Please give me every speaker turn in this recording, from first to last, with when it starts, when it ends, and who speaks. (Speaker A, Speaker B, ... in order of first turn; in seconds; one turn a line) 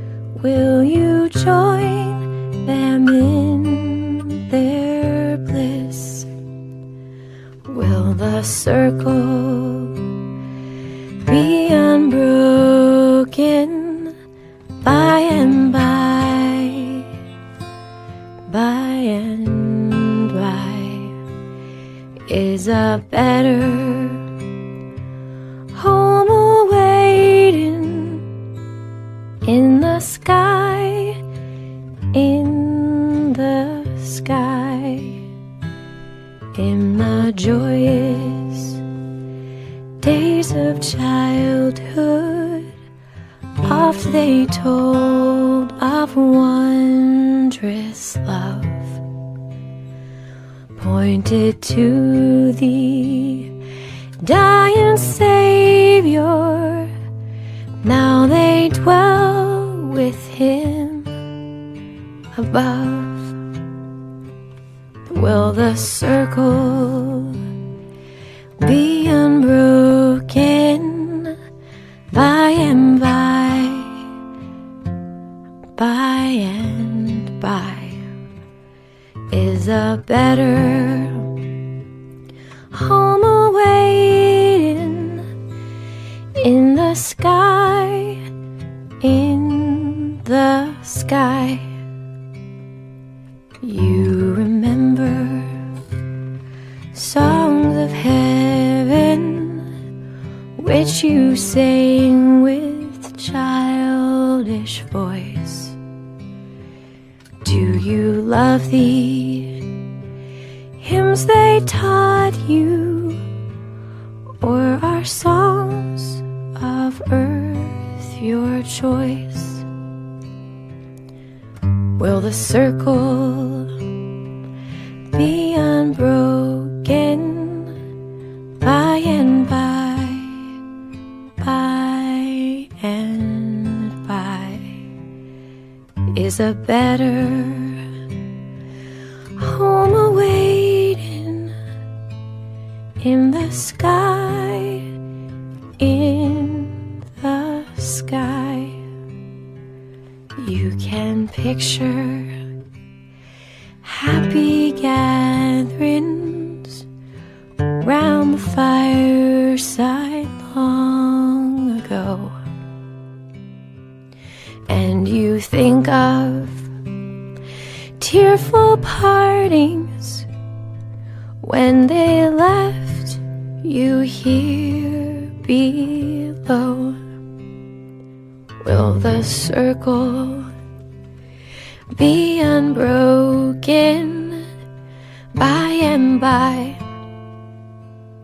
Speaker A: 0.4-6.3
Speaker A: 7.7-10.0
Speaker A: 11.2-14.1
Speaker A: 14.8-17.1
Speaker A: 18.5-21.1
Speaker A: 22.3-24.2
Speaker A: 25.7-28.2
Speaker A: 29.4-31.2
Speaker A: 32.1-35.2
Speaker A: 36.5-38.8
Speaker A: 40.0-42.7
Speaker A: 43.6-49.0
Speaker A: 50.8-53.5
Speaker A: 54.2-56.9
Speaker A: 57.8-61.1
Speaker A: 62.4-63.3
Speaker A: 65.1-67.4
Speaker A: 68.6-71.3
Speaker A: 72.1-74.0
Speaker A: 75.8-78.0
Speaker A: 79.3-81.3
Speaker A: 82.7-85.2
Speaker A: 86.4-88.2
Speaker A: 89.0-91.7
Speaker A: 93.6-95.6
Speaker A: 96.9-99.7
Speaker A: 100.6-105.8
Speaker A: 107.4-109.5
Speaker A: 110.8-113.2
Speaker A: 114.4-119.6
Speaker A: 122.0-123.7
Speaker A: 125.1-127.7
Speaker A: 128.6-130.3
Speaker A: 131.4-134.8
Speaker A: 136.1-137.8
Speaker A: 139.4-141.5
Speaker A: 143.0-144.8
Speaker A: 145.8-148.8
Speaker A: 150.4-152.3
Speaker A: 153.8-156.8
Speaker A: 157.8-162.3
Speaker A: 164.7-166.7
Speaker A: 168.0-170.3
Speaker A: 171.4-177.0
Speaker A: 178.6-180.5
Speaker A: 181.9-184.5
Speaker A: 185.3-186.8